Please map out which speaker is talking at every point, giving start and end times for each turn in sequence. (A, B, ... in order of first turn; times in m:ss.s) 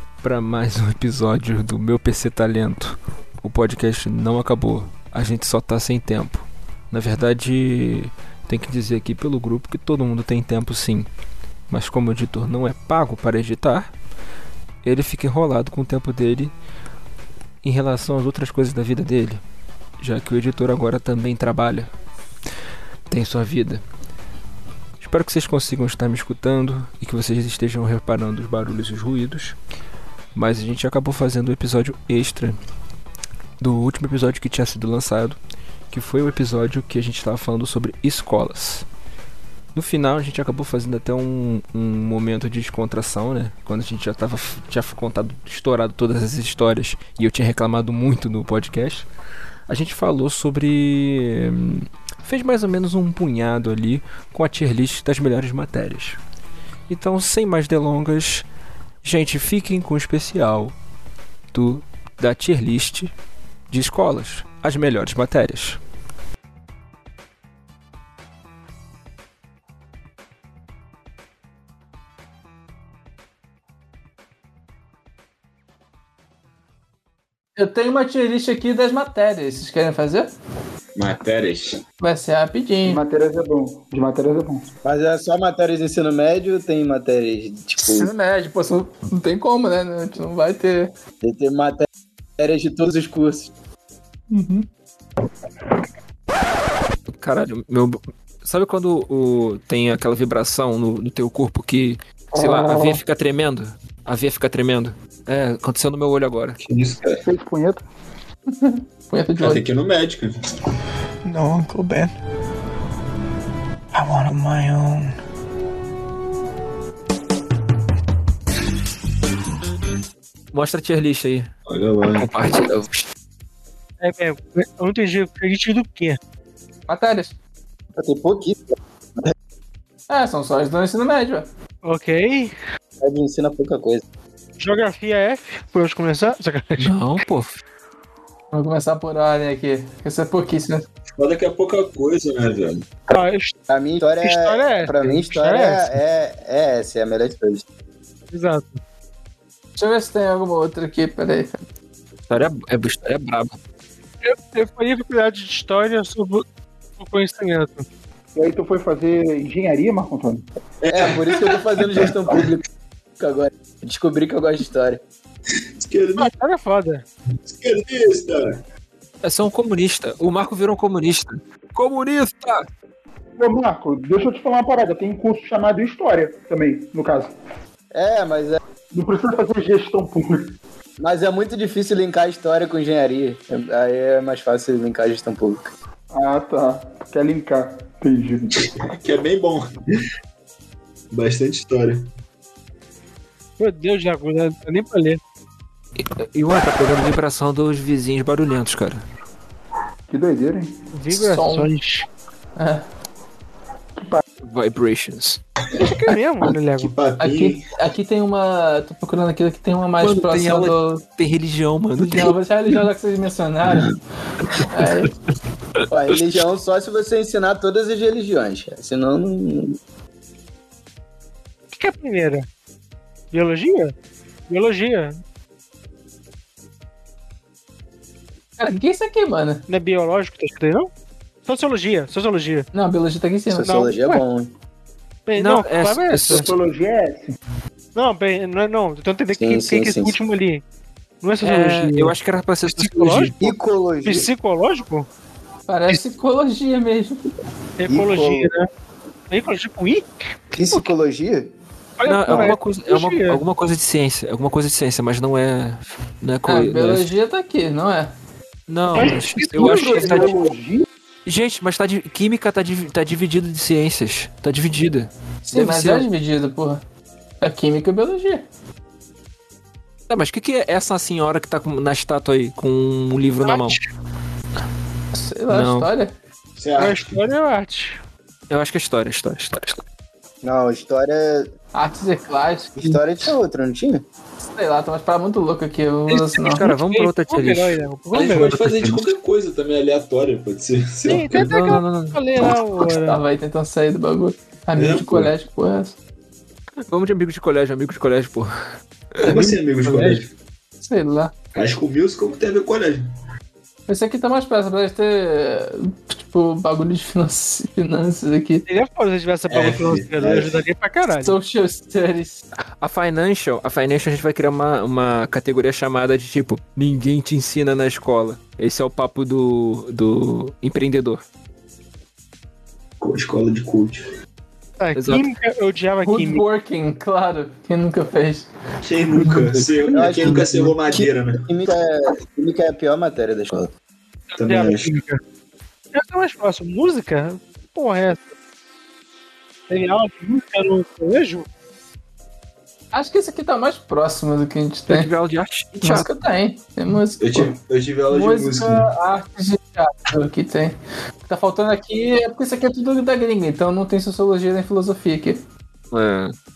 0:00.2-0:11.1 A
0:11.7-0:13.9 A
0:14.8-0:16.5 A
0:17.6-0:19.4 A
0:20.0-0:21.9 A
0:23.1-0:23.8 A
0:25.0-0:29.6 A
0:30.3-0:32.6 A
0:33.6-0:35.4 A
0:35.9-0:38.8 A
0:39.7-0:49.0 A
0:49.7-0:56.2 A
0:56.9-0:58.4 A
0:59.0-1:00.7 A
1:01.5-1:03.1 A
1:03.7-1:05.8 A
1:17.6-1:20.3 B
1:21.0-1:21.8 C
1:22.0-1:23.0 B
1:22.8-1:24.6 D
1:24.8-1:28.1 E
1:27.8-1:30.9 B
1:31.2-1:31.8 E
1:32.4-1:33.5 E
1:34.3-1:34.6 B
1:37.1-1:46.6 A
1:42.4-1:42.7 D
1:46.6-1:47.2 C
1:47.2-1:47.8 D
1:48.5-1:49.6 B
1:49.4-1:50.3 C
1:51.2-1:52.1 F
1:53.9-1:55.1 F
2:00.5-2:01.5 A
2:01.7-2:02.3 C
2:02.2-2:03.1 A
2:04.0-2:06.2 G
2:06.9-2:07.3 B
2:08.0-2:08.6 E
2:10.1-2:11.5 B
2:11.8-2:12.5 G
2:13.0-2:14.0 E
2:14.6-2:16.9 G
2:16.8-2:17.6 A
2:18.5-2:20.8 B
2:21.2-2:22.9 C
2:23.1-2:23.5 G
2:23.7-2:27.6 E
2:24.2-2:25.9 G
2:28.3-2:28.8 G
2:29.8-2:31.6 B
2:32.3-2:33.6 A
2:34.2-2:36.4 G
2:37.0-2:37.8 G
2:38.4-2:40.4 D
2:40.8-2:42.1 C
2:40.9-2:42.6 E
2:43.2-2:45.0 E
2:45.8-2:46.3 C
2:46.2-2:47.0 G
2:47.4-2:48.6 C
2:49.2-2:52.6 A
2:53.4-2:57.3 D
2:57.9-2:58.6 E
2:58.9-3:00.5 D
3:01.0-3:05.7 E
3:06.1-3:08.5 D
3:08.9-3:09.8 C
3:11.1-3:12.1 C
3:13.6-3:15.2 G
3:16.2-3:19.0 A
3:20.1-3:20.7 D
3:20.9-3:22.0 G
3:21.1-3:21.7 B
3:22.6-3:22.8 B
3:24.4-3:25.4 A
3:25.7-3:26.9 G
3:26.8-3:27.7 C
3:27.2-3:31.0 B
3:30.0-3:32.3 A
3:32.1-3:33.9 B
3:34.7-3:35.1 B
3:35.9-3:39.8 E
3:41.7-3:42.4 G
3:43.3-3:43.9 G
3:44.5-3:45.2 G
3:48.6-3:49.6 B
3:49.7-3:50.9 G
3:51.4-3:52.7 G
3:52.7-3:53.9 B
3:53.5-3:54.5 E
3:53.7-3:54.2 G
3:55.3-3:56.5 G
3:55.4-3:56.5 A
3:56.3-3:57.3 D
3:57.9-4:00.6 G
3:59.4-4:00.2 E
4:01.2-4:02.1 G
4:01.4-4:03.5 A
4:02.7-4:03.4 G
4:03.4-4:04.3 E
4:04.0-4:05.1 G
4:05.7-4:07.2 B
4:07.8-4:08.7 G
4:07.9-4:08.5 E
4:09.3-4:10.9 G
4:10.5-4:11.5 E
4:12.0-4:13.4 G
4:12.0-4:17.1 A
4:12.3-4:12.5 E
4:16.5-4:18.1 B
4:18.7-4:20.3 A
4:18.9-4:20.3 G
4:18.9-4:20.8 D
4:21.2-4:26.1 A
4:25.4-4:26.8 B
4:27.4-4:28.4 B
4:30.1-4:33.8 A
4:33.4-4:33.8 G
4:35.1-4:36.1 B
4:35.5-4:35.9 A
4:36.6-4:37.2 C
4:36.8-4:38.0 G
4:38.5-4:39.8 A
4:40.4-4:41.5 E
4:41.7-4:43.0 B
4:42.8-4:44.0 E
4:44.5-4:46.6 B
4:46.4-4:47.8 A
4:46.6-4:48.6 G
4:48.1-4:51.6 C
4:48.3-4:49.0 A
4:51.0-4:53.2 G
4:51.3-4:52.2 A
4:53.0-4:56.0 B
4:54.7-4:55.3 C
4:56.9-4:58.5 A
4:59.2-5:00.3 C
4:59.3-5:00.2 G
5:00.8-5:01.3 B
5:01.5-5:03.0 C
5:03.9-5:08.6 B
5:08.7-5:11.3 G
5:09.5-5:10.6 C
5:11.2-5:12.4 B
5:12.8-5:21.2 A
5:23.0-5:24.1 C
5:24.8-5:26.4 G
5:24.9-5:25.2 A
5:26.0-5:28.5 B
5:28.8-5:31.4 C
5:29.9-5:33.7 E
5:34.4-5:34.9 C
5:34.4-5:35.2 G
5:35.9-5:38.3 G
5:39.7-5:41.4 G
5:42.9-5:45.1 B
5:44.9-5:46.2 A
5:45.8-5:47.5 B
5:47.2-5:48.9 C
5:48.1-5:55.4 B
5:55.9-5:56.3 A